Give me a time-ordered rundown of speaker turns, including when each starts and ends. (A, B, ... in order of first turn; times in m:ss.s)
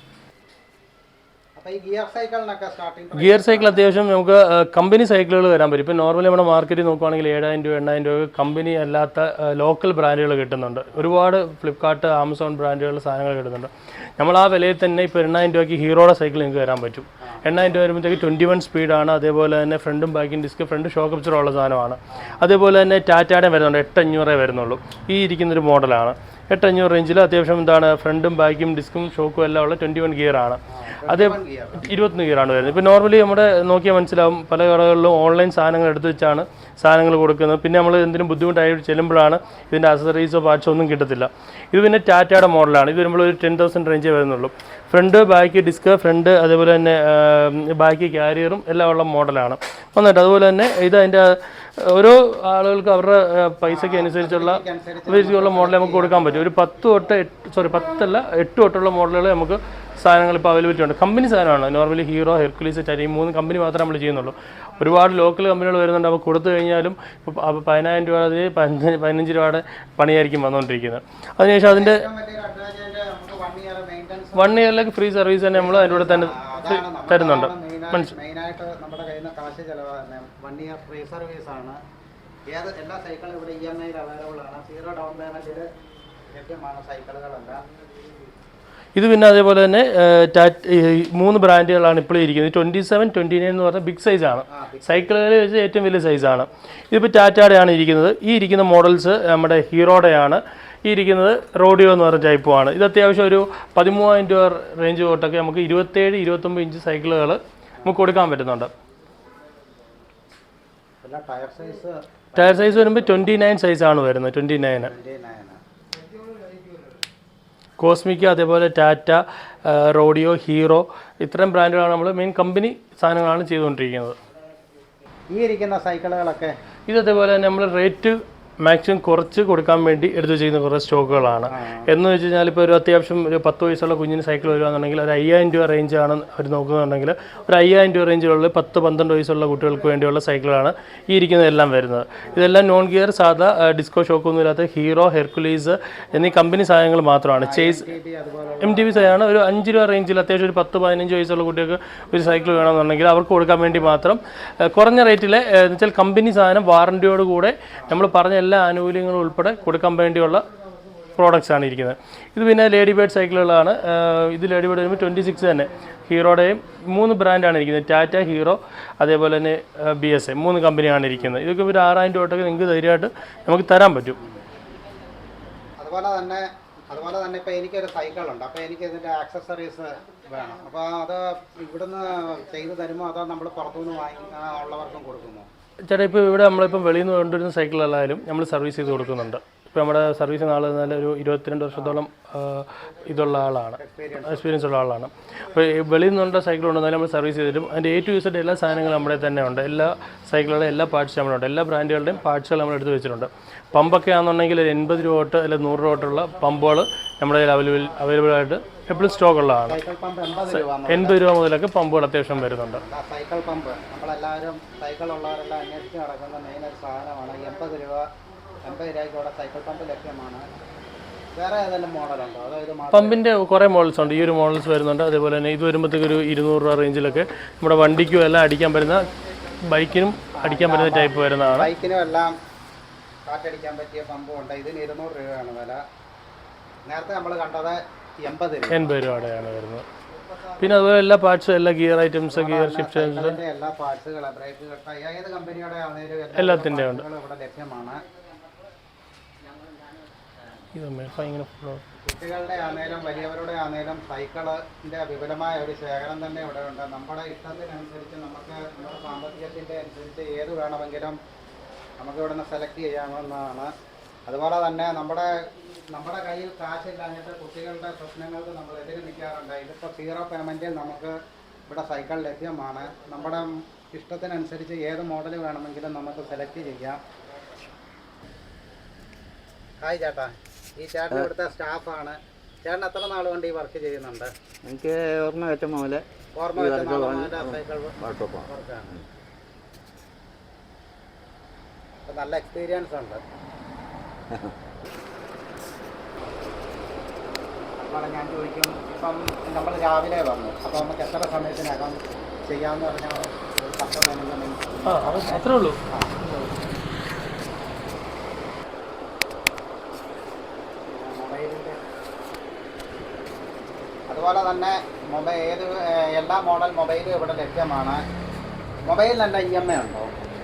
0:01.6-0:03.9 A
0:03.2-1:12.0 B
0:22.1-0:22.5 A
0:30.7-0:31.8 A
0:53.6-0:56.5 A
1:11.6-1:14.7 A
1:14.3-1:18.1 B
1:15.5-1:21.8 A
1:22.5-1:25.7 A
1:26.3-1:27.6 A
1:28.9-1:48.7 B
1:34.5-1:35.2 A
1:51.0-1:53.3 A
1:52.4-1:54.9 B
1:54.7-1:55.6 A
1:57.8-2:04.2 B
2:05.3-2:06.5 A
2:06.9-2:27.9 B
2:11.5-2:11.9 A
2:27.4-2:29.2 A
2:28.6-2:40.4 B
2:41.1-2:54.2 B
2:55.8-3:05.5 A
3:05.9-3:29.7 B
3:13.8-3:14.5 A
3:29.6-3:31.2 A
3:30.9-3:32.8 B
3:32.4-3:38.1 A
3:38.6-3:40.4 A
3:41.3-3:43.2 A
3:42.9-3:49.1 B
3:49.7-3:51.7 B
3:50.4-3:52.3 A
3:53.2-3:55.8 A
3:56.8-3:59.2 A
3:58.7-3:59.8 B
4:00.3-4:00.6 A
4:00.6-4:03.4 B
4:02.3-4:08.0 A
4:06.4-4:07.0 B
4:10.7-4:11.8 B
4:12.0-4:21.2 A
4:22.0-4:23.7 A
4:24.2-4:31.1 A
4:31.7-4:37.0 A
4:39.8-4:44.3 A
4:44.6-4:46.0 C
4:46.4-4:48.9 A
4:46.6-4:49.0 C
4:52.1-4:53.2 A
4:57.8-5:06.5 A
5:04.8-5:05.8 B
5:10.9-5:11.8 A
5:14.1-5:18.0 A
5:18.9-5:20.1 A